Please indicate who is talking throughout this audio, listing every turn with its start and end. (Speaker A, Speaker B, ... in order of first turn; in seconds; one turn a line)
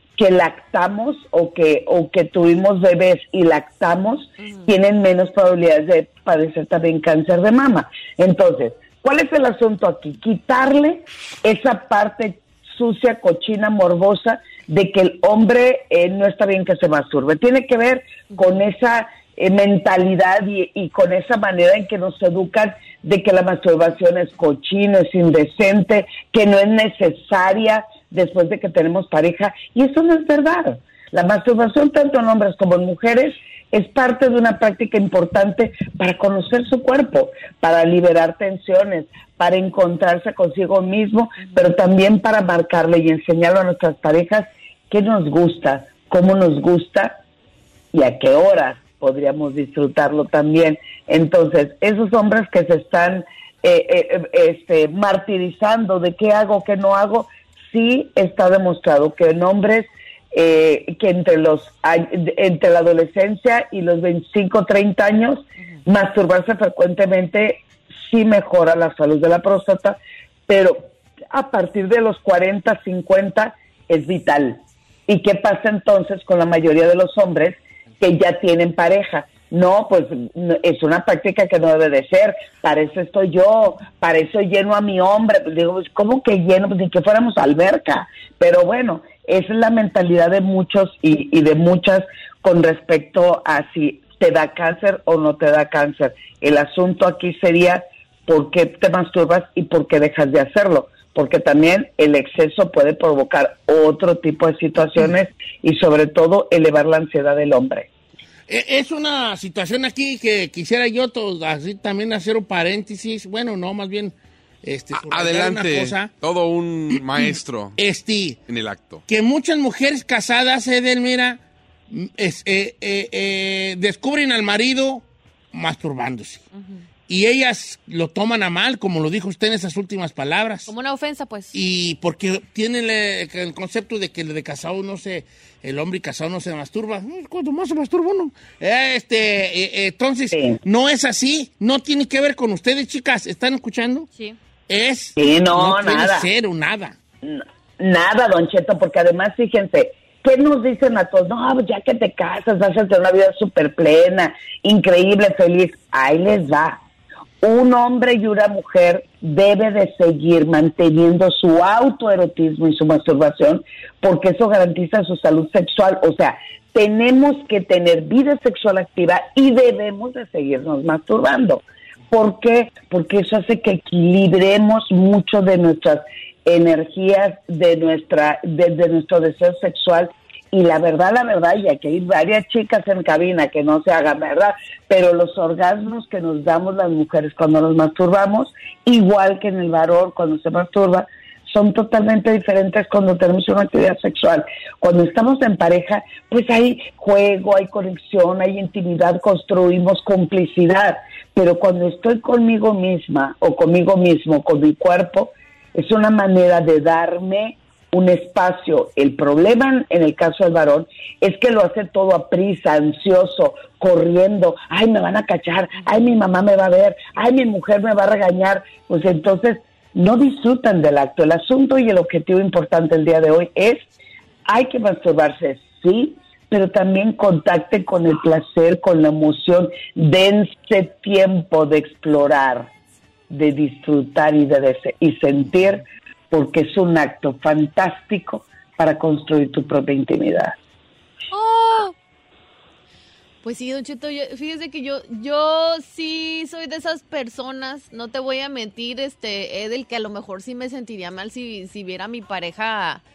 Speaker A: 0.2-47.2
Speaker B: 4.4-4.7
Speaker A: 47.9-70.0
Speaker A: 70.5-107.9
Speaker C: 108.5-116.1
Speaker D: 114.9-117.8
Speaker C: 116.9-118.4
Speaker D: 118.5-119.0
Speaker C: 119.1-126.4
Speaker B: 126.5-126.8
Speaker C: 127.1-130.7
Speaker B: 130.7-131.5
Speaker C: 131.5-144.1
Speaker A: 140.3-140.6
Speaker C: 144.7-146.9
Speaker A: 145.2-146.3
Speaker A: 147.2-156.8
Speaker A: 157.4-223.8
Speaker B: 215.8-216.1
Speaker A: 224.5-232.7
Speaker A: 233.3-240.6
Speaker B: 241.3-241.9
Speaker B: 243.4-253.0